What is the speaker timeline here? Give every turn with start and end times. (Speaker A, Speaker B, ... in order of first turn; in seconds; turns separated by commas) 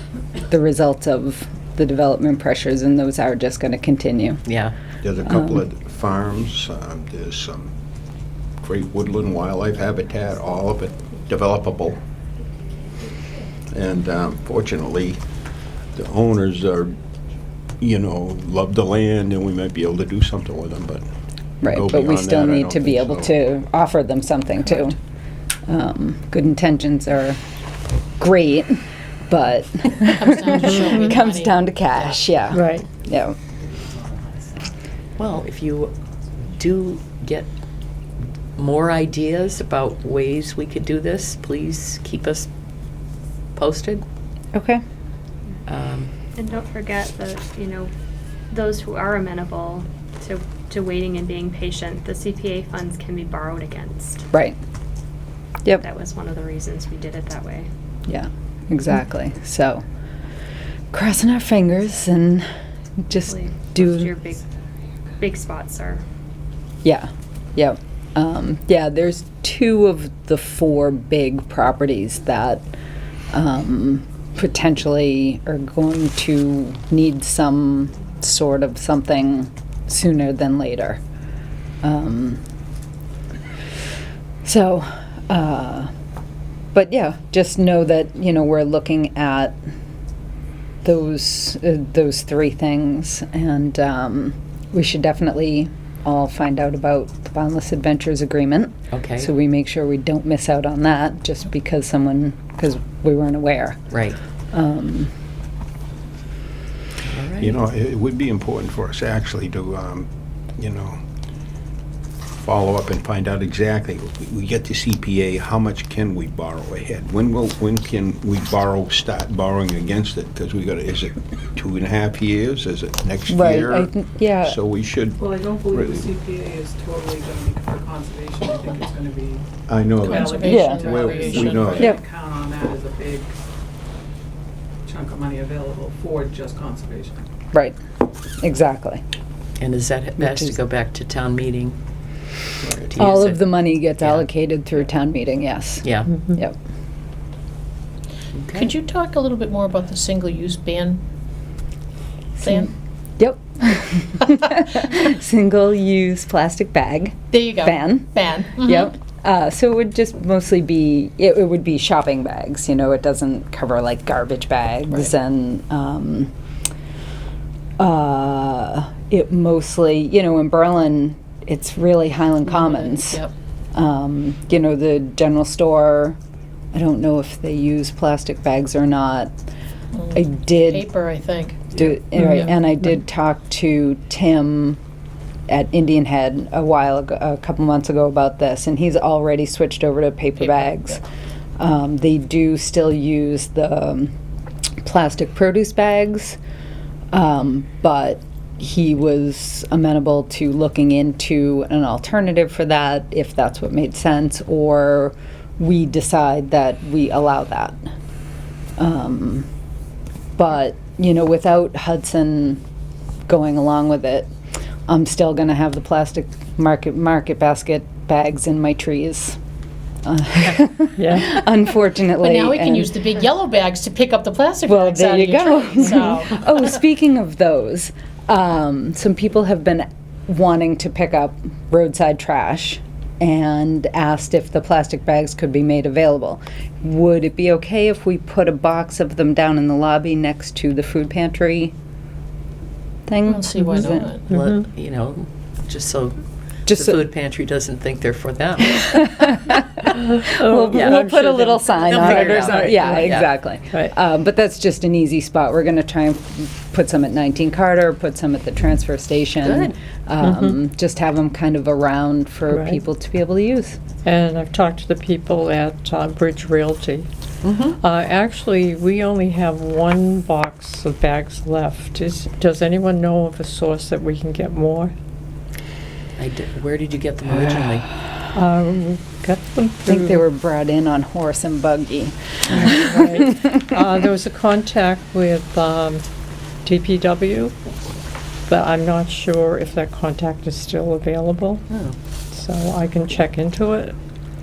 Speaker A: 0.5-4.4, Speaker B: 4.5-4.7, Speaker C: 5.0-7.7, Speaker A: 5.3-5.6, Speaker C: 8.6-12.0, Speaker C: 13.7-15.2, Speaker C: 15.9-17.0, Speaker C: 17.8-21.1, Speaker A: 21.6-25.0, Speaker C: 21.6-23.3, Speaker A: 25.7-27.4, Speaker A: 28.2-33.4, Speaker D: 30.1-32.2, Speaker E: 32.5-32.9, Speaker B: 35.2-35.9, Speaker B: 36.5-37.5, Speaker B: 38.6-42.5, Speaker B: 43.5-44.0, Speaker A: 44.5-44.8, Speaker B: 45.7-46.1, Speaker F: 46.4-47.9, Speaker F: 48.5-54.2, Speaker A: 54.3-54.6, Speaker F: 55.7-57.7, Speaker A: 58.1-59.8, Speaker A: 60.9-62.5, Speaker A: 63.0-64.1, Speaker F: 63.3-64.4, Speaker F: 65.2-66.0, Speaker A: 66.8-72.7, Speaker A: 73.3-81.0, Speaker A: 81.8-82.4, Speaker A: 84.4-85.9, Speaker A: 86.7-89.6, Speaker A: 90.8-103.8, Speaker B: 98.9-99.3, Speaker B: 103.9-104.2, Speaker A: 104.5-105.1, Speaker B: 107.0-107.5, Speaker C: 107.4-111.0, Speaker C: 112.4-126.1, Speaker A: 123.3-124.6, Speaker G: 125.2-129.4, Speaker C: 129.7-131.9, Speaker G: 130.0-133.3, Speaker D: 130.0-131.5, Speaker A: 130.4-130.9, Speaker G: 134.8-137.2, Speaker A: 138.4-139.0, Speaker B: 139.6-141.8, Speaker A: 140.2-140.5, Speaker B: 142.6-144.3, Speaker A: 142.9-146.6, Speaker B: 145.8-146.1, Speaker E: 146.1-146.4, Speaker B: 148.4-148.7, Speaker D: 148.5-151.0, Speaker D: 152.4-152.7, Speaker A: 152.4-166.3, Speaker D: 157.3-158.9, Speaker A: 167.8-176.2, Speaker D: 172.5-173.3, Speaker A: 176.7-179.3, Speaker D: 179.9-181.8, Speaker A: 180.1-180.9, Speaker A: 181.7-184.8, Speaker E: 182.1-182.5, Speaker A: 185.5-191.0, Speaker D: 190.4-191.0, Speaker A: 191.6-194.1, Speaker A: 194.8-196.4, Speaker A: 197.1-207.8, Speaker A: 208.8-209.5, Speaker A: 210.4-212.6, Speaker A: 213.3-214.3, Speaker A: 214.9-219.4, Speaker A: 220.0-222.9, Speaker E: 221.0-221.4, Speaker D: 222.2-226.8, Speaker A: 224.7-241.7, Speaker A: 243.1-244.1, Speaker D: 243.3-244.2, Speaker B: 244.3-249.4, Speaker E: 244.3-244.7, Speaker A: 246.7-247.0, Speaker A: 248.9-263.8, Speaker E: 249.9-253.1, Speaker B: 250.7-253.7, Speaker B: 259.4-259.8, Speaker E: 260.2-260.6, Speaker E: 262.5-262.8, Speaker E: 264.0-267.1, Speaker B: 267.4-267.8, Speaker E: 267.8-274.9, Speaker B: 276.2-277.9, Speaker E: 278.3-280.2, Speaker A: 279.9-283.2, Speaker E: 282.5-286.1, Speaker E: 286.6-287.6, Speaker E: 288.5-291.6, Speaker B: 291.7-291.9, Speaker E: 292.3-293.9